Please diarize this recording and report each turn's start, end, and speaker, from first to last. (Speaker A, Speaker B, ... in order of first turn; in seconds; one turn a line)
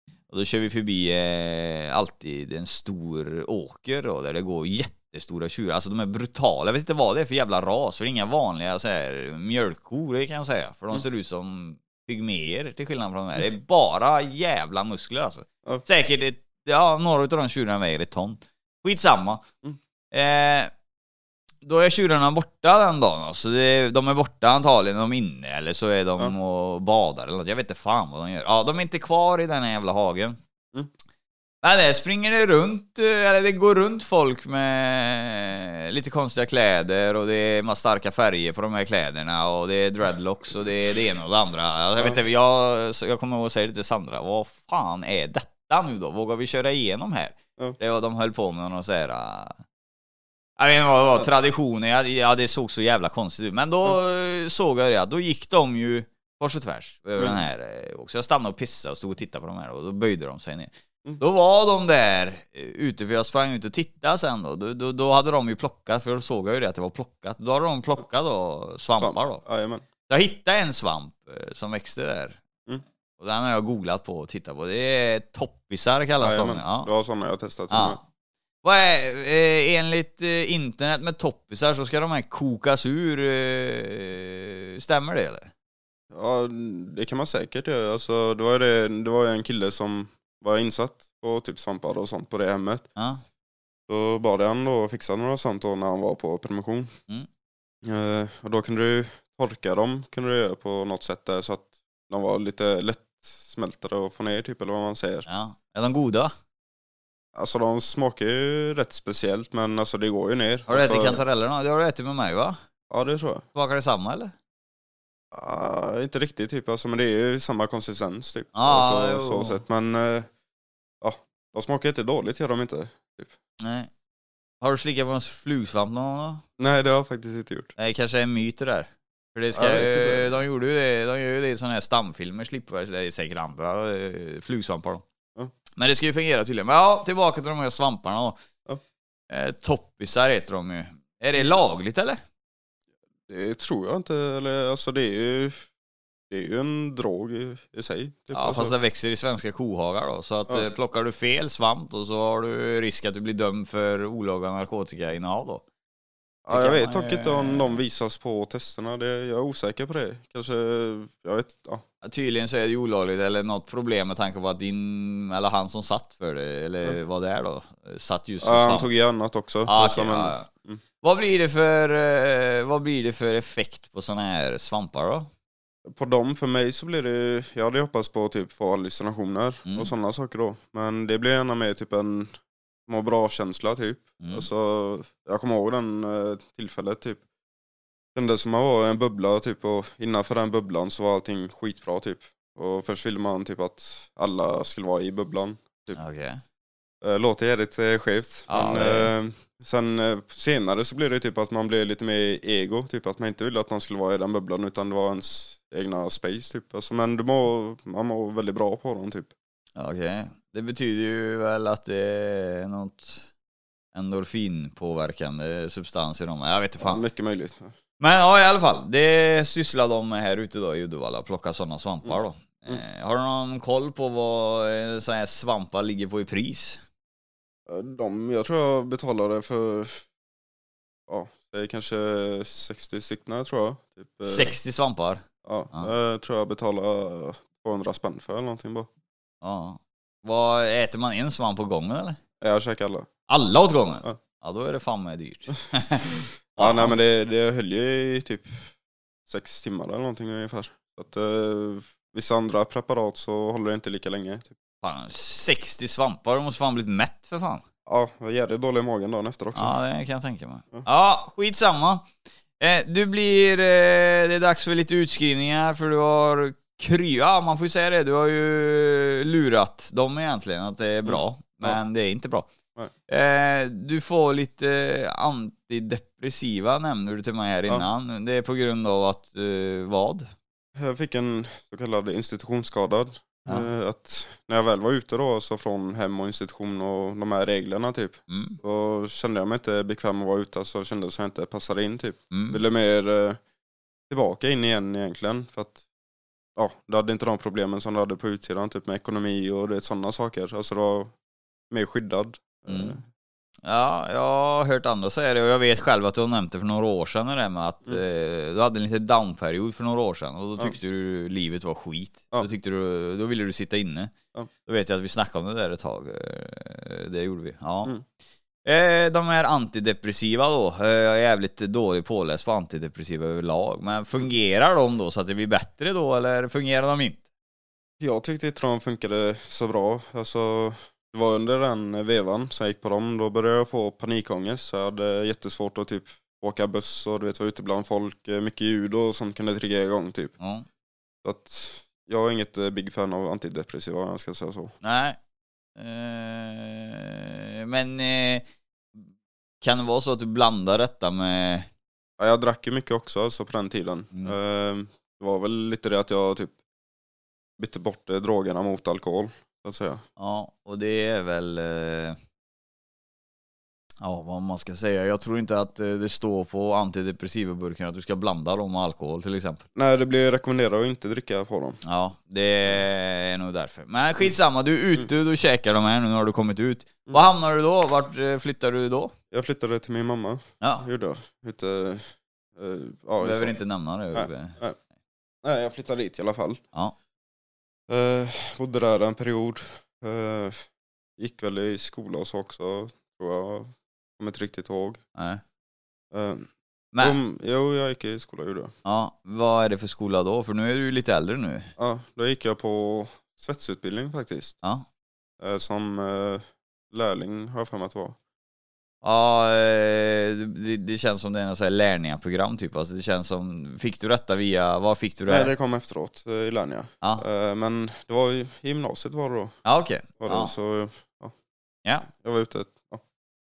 Speaker A: 0.3-19.4
Speaker A: 20.1-20.7
Speaker A: 21.6-30.4
Speaker A: 31.6-49.6
Speaker A: 50.6-69.4
Speaker B: 69.0-69.8
Speaker A: 70.1-72.4
Speaker A: 73.2-76.9
Speaker B: 76.2-78.0
Speaker A: 77.7-78.0
Speaker A: 78.6-85.5
Speaker B: 86.1-92.8
Speaker A: 93.0-93.2
Speaker B: 93.9-96.9
Speaker B: 97.8-105.2
Speaker A: 105.3-106.3
Speaker B: 107.3-111.2
Speaker A: 110.7-112.6
Speaker B: 112.9-113.5
Speaker A: 113.5-114.3
Speaker B: 115.3-120.3
Speaker A: 118.5-119.6
Speaker B: 121.0-123.3
Speaker A: 123.6-123.9
Speaker A: 124.6-126.4
Speaker B: 126.6-127.7
Speaker A: 127.8-135.0
Speaker B: 129.5-130.4
Speaker A: 135.8-138.4
Speaker A: 139.3-142.2
Speaker B: 143.3-145.7
Speaker B: 146.3-148.7
Speaker A: 148.3-155.6
Speaker B: 156.4-161.8
Speaker A: 156.5-157.8
Speaker A: 162.0-168.9
Speaker B: 168.4-170.8
Speaker A: 169.7-170.5
Speaker A: 171.0-175.3
Speaker B: 175.9-187.2
Speaker A: 179.7-179.9
Speaker A: 184.2-184.5
Speaker B: 188.1-196.0
Speaker A: 195.9-196.4
Speaker B: 197.0-209.3
Speaker A: 198.5-199.1
Speaker A: 209.8-213.3
Speaker A: 213.9-217.0
Speaker B: 216.8-217.7
Speaker A: 218.0-226.8
Speaker B: 222.0-222.8
Speaker B: 227.7-230.1
Speaker B: 231.1-234.5
Speaker A: 234.2-235.9
Speaker B: 235.4-238.9
Speaker A: 239.4-242.2
Speaker B: 242.4-243.1
Speaker A: 243.3-246.9
Speaker B: 246.6-248.7
Speaker B: 249.3-254.5
Speaker A: 254.8-257.6
Speaker B: 257.9-259.8
Speaker A: 259.5-262.1
Speaker A: 262.6-272.5
Speaker B: 271.0-271.8
Speaker A: 273.1-280.3
Speaker B: 280.8-293.4
Speaker A: 288.3-288.6
Speaker A: 292.3-292.6
Speaker B: 294.1-295.8
Speaker B: 296.6-301.1
Speaker B: 301.7-303.0
Speaker A: 302.7-303.0
Speaker A: 303.6-314.1
Speaker A: 314.6-318.0
Speaker A: 318.6-327.2
Speaker B: 328.0-340.3
Speaker A: 340.4-340.6
Speaker B: 341.2-344.7
Speaker A: 344.8-345.2
Speaker A: 345.8-348.4
Speaker A: 349.6-351.7
Speaker B: 352.2-356.6
Speaker B: 357.6-360.0
Speaker A: 360.2-362.2
Speaker A: 364.0-369.6
Speaker B: 369.7-371.8
Speaker A: 371.8-379.1
Speaker B: 379.3-383.6
Speaker A: 380.6-380.9
Speaker A: 383.2-384.6
Speaker B: 384.1-384.8
Speaker B: 385.4-386.6
Speaker B: 387.9-395.0
Speaker A: 395.1-395.4
Speaker B: 396.1-398.7
Speaker A: 396.9-397.2
Speaker A: 398.8-401.7
Speaker B: 401.8-404.6
Speaker B: 405.4-408.2
Speaker A: 409.0-415.5
Speaker B: 415.3-421.3
Speaker A: 419.6-420.5
Speaker B: 422.0-423.0